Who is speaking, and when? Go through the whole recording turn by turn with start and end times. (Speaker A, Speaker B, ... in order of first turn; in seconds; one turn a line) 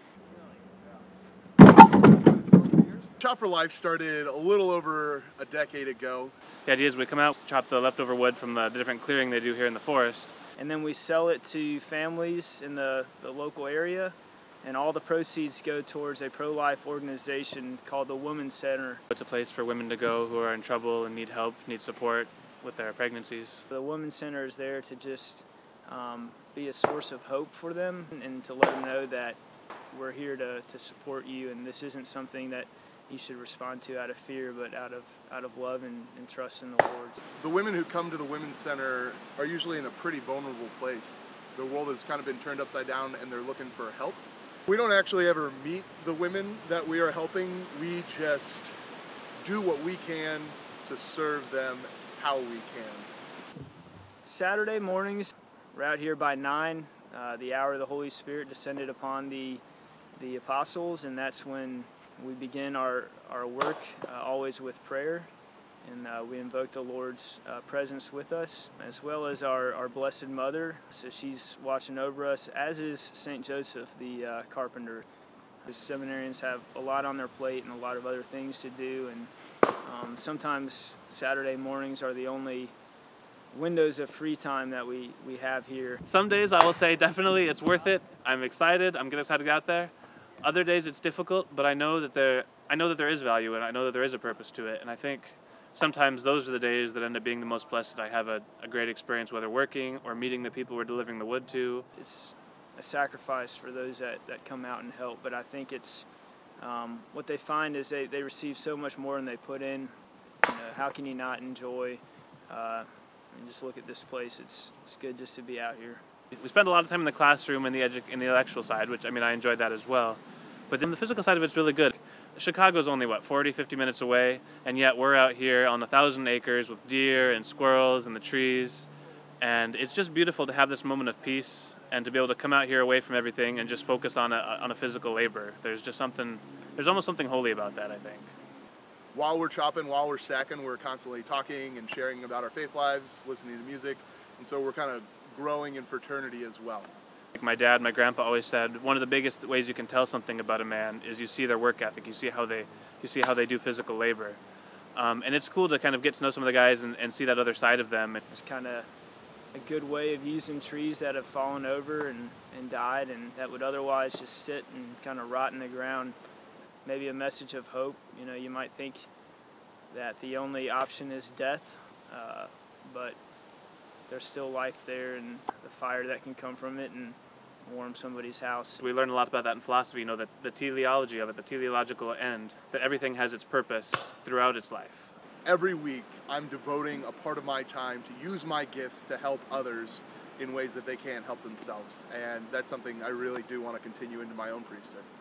Speaker A: 2.6-6.3
Speaker B: 6.7-10.3
Speaker C: 10.6-19.0
Speaker B: 19.1-23.6
Speaker C: 23.7-29.4
Speaker C: 29.9-37.2
Speaker A: 37.4-48.7
Speaker A: 49.4-53.1
Speaker C: 54.2-59.6
Speaker C: 60.1-65.3
Speaker C: 65.8-75.0
Speaker C: 75.6-82.7
Speaker C: 83.5-86.0
Speaker B: 86.0-101.8
Speaker C: 101.9-106.1
Speaker C: 106.6-116.0
Speaker B: 116.3-128.9
Speaker B: 129.4-138.3
Speaker A: 139.1-146.9
Speaker B: 147.3-154.4
Speaker B: 154.9-158.2
Speaker C: 158.3-158.9
Speaker C: 159.5-166.2
Speaker C: 166.8-169.1
Speaker C: 169.9-173.2
Speaker C: 174.1-178.8
Speaker B: 178.8-185.1
Speaker A: 185.4-195.1